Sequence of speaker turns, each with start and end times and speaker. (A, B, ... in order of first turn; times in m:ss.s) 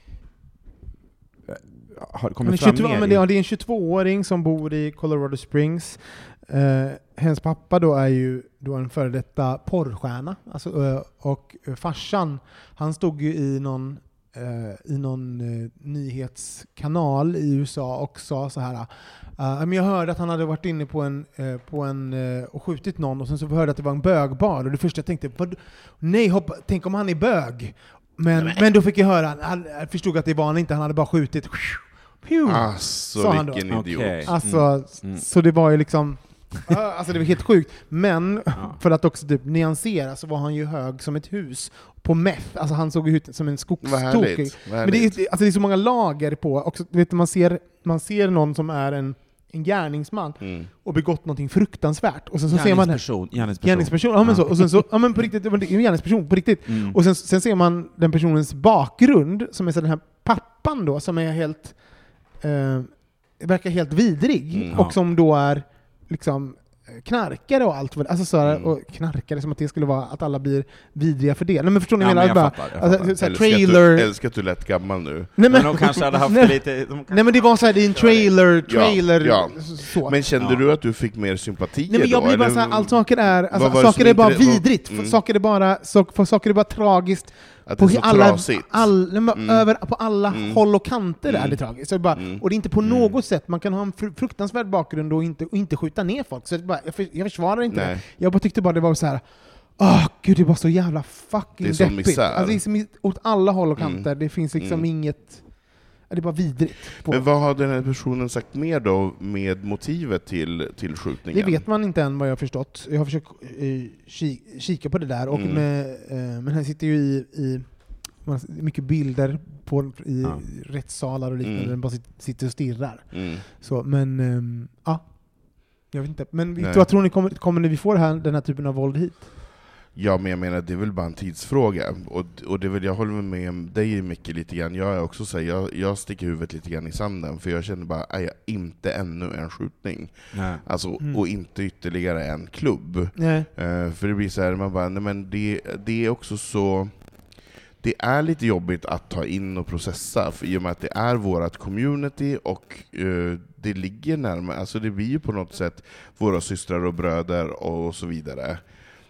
0:01.5-0:03.2 A
0:02.4-0:33.7 B
0:28.4-0:28.6 C
0:32.4-0:34.4 C
0:33.7-0:35.2 A
0:34.2-1:01.8 B
0:43.8-0:45.2 C
0:50.4-0:50.7 C
0:52.5-0:54.8 A
0:56.7-0:57.0 A
1:02.4-1:14.1 B
1:04.5-1:04.8 C
1:08.4-1:08.7 C
1:12.0-1:13.1 A
1:13.2-1:15.4 C
1:15.4-1:20.2 B
1:15.5-1:18.3 A
1:18.6-1:25.2 C
1:21.9-1:39.2 B
1:27.6-1:29.7 C
1:30.3-1:30.6 C
1:31.2-1:31.6 C
1:32.1-1:32.4 C
1:32.8-1:33.1 A
1:37.7-1:38.0 C
1:39.8-1:45.5 B
1:41.6-1:42.6 C
1:43.8-1:44.8 C
1:46.1-1:47.2 B
1:47.0-1:51.6 C
1:51.3-2:09.3 B
1:55.3-1:55.6 C
2:01.4-2:01.7 C
2:03.1-2:03.4 C
2:06.6-2:06.9 C
2:09.9-2:26.9 C
2:20.3-2:20.6 A
2:23.2-2:23.5 B
2:27.8-2:38.6 C